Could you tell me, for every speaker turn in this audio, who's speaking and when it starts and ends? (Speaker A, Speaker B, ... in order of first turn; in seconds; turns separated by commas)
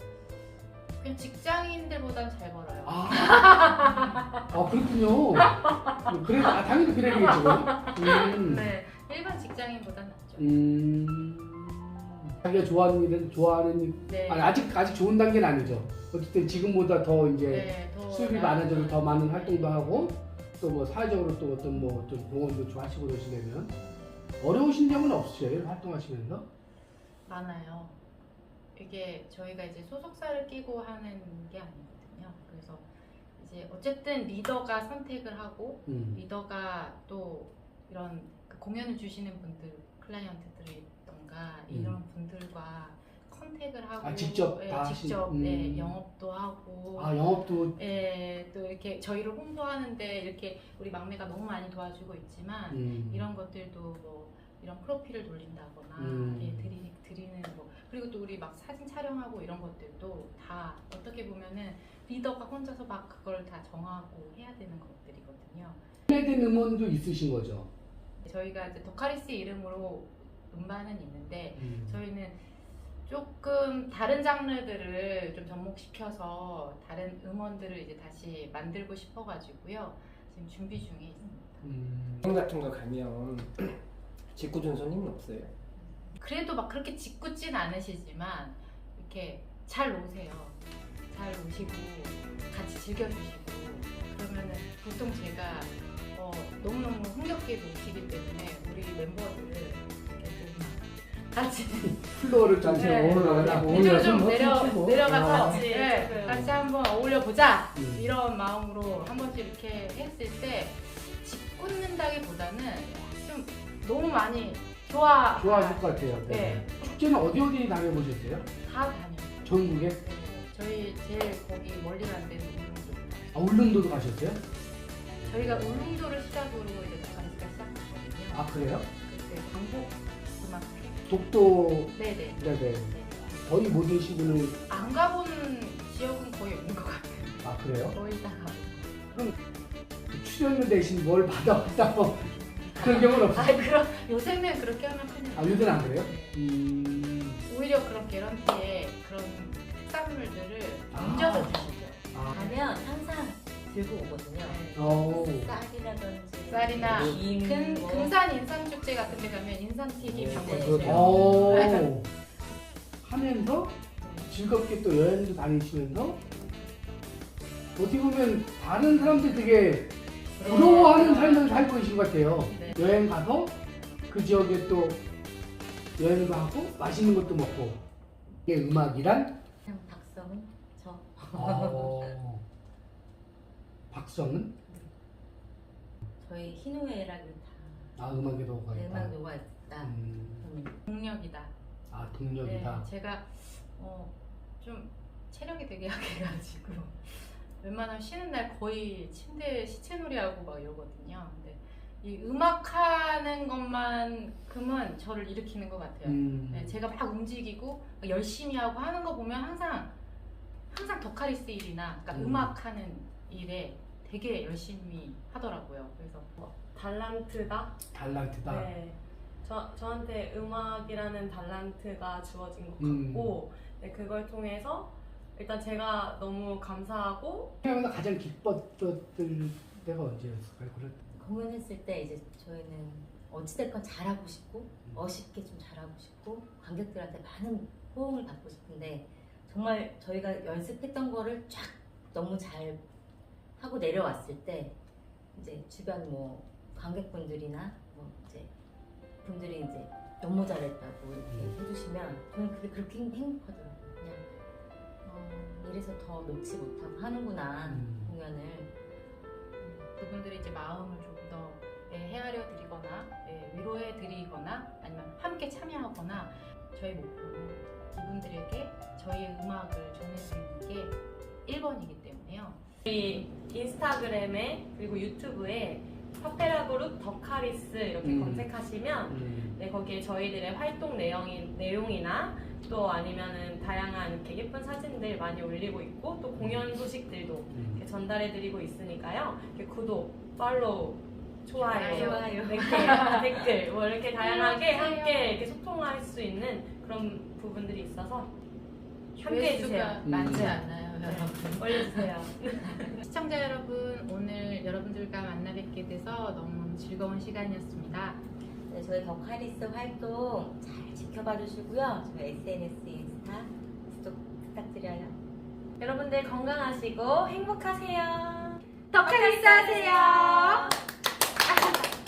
Speaker A: 1.0-4.4, Speaker B: 2.8-3.7, Speaker B: 4.5-8.7, Speaker A: 7.3-10.5, Speaker C: 8.2-8.8, Speaker B: 10.4-23.7, Speaker A: 14.1-14.6, Speaker A: 17.5-20.1, Speaker A: 23.8-24.2, Speaker B: 24.4-26.4, Speaker A: 27.2-28.0, Speaker A: 28.7-65.8, Speaker B: 35.9-36.2, Speaker B: 41.7-42.0, Speaker B: 44.0-46.0, Speaker B: 46.9-47.8, Speaker B: 52.7-53.3, Speaker B: 56.0-56.8, Speaker B: 66.1-67.7, Speaker A: 68.2-72.4, Speaker B: 71.5-72.0, Speaker A: 73.0-81.7, Speaker B: 81.6-82.3, Speaker D: 82.2-83.8, Speaker D: 84.3-85.5, Speaker A: 86.1-90.6, Speaker A: 91.1-116.6, Speaker B: 102.0-105.4, Speaker D: 102.7-105.5, Speaker C: 105.1-106.5, Speaker B: 106.3-106.5, Speaker B: 107.7-108.2, Speaker B: 115.3-118.5, Speaker C: 116.3-116.6, Speaker A: 118.6-123.4, Speaker B: 119.4-120.0, Speaker B: 123.3-124.4, Speaker B: 125.2-126.0, Speaker A: 125.2-131.2, Speaker B: 128.3-128.9, Speaker B: 131.1-134.8, Speaker A: 131.8-133.4, Speaker A: 134.7-139.0, Speaker B: 137.4-138.0, Speaker B: 140.1-143.7, Speaker A: 142.4-146.4, Speaker B: 145.3-147.4, Speaker A: 147.4-152.6, Speaker B: 150.9-151.6, Speaker B: 152.1-152.4, Speaker E: 152.2-158.2, Speaker A: 154.4-154.9, Speaker B: 154.7-155.5, Speaker A: 156.5-161.9, Speaker B: 156.8-157.2, Speaker B: 160.0-162.1, Speaker E: 160.2-161.8, Speaker B: 163.0-166.2, Speaker B: 167.8-173.6, Speaker A: 168.9-169.3, Speaker A: 170.3-171.7, Speaker A: 172.4-172.8, Speaker B: 174.1-175.0, Speaker B: 176.0-177.8, Speaker B: 178.4-179.4, Speaker E: 179.6-182.1, Speaker B: 181.3-182.4, Speaker B: 183.9-184.6, Speaker E: 186.2-188.1, Speaker B: 188.0-189.2, Speaker E: 188.7-190.8, Speaker B: 189.8-190.5, Speaker A: 190.9-191.5, Speaker B: 191.9-192.9, Speaker A: 192.4-209.9, Speaker B: 206.0-206.8, Speaker A: 210.7-216.3, Speaker B: 212.1-212.5, Speaker C: 216.4-217.8, Speaker B: 217.9-218.7, Speaker C: 218.4-227.5, Speaker B: 222.8-223.3, Speaker B: 227.6-230.9, Speaker E: 231.1-242.8, Speaker E: 243.6-244.7, Speaker E: 245.3-248.5, Speaker E: 249.2-254.2, Speaker B: 251.3-251.6, Speaker E: 255.0-258.7, Speaker B: 257.7-258.1, Speaker A: 259.6-272.6, Speaker C: 272.9-298.3, Speaker B: 278.0-278.5, Speaker B: 279.1-279.6, Speaker B: 286.4-286.7, Speaker B: 287.5-287.8, Speaker A: 291.6-293.1, Speaker E: 291.6-293.6, Speaker A: 294.2-295.3, Speaker C: 299.2-300.0, Speaker A: 299.2-302.1, Speaker B: 300.0-300.6, Speaker C: 301.0-303.0, Speaker A: 302.8-308.2, Speaker E: 308.7-315.1, Speaker C: 315.8-318.6, Speaker A: 318.9-320.7, Speaker E: 319.1-320.7, Speaker A: 321.5-321.8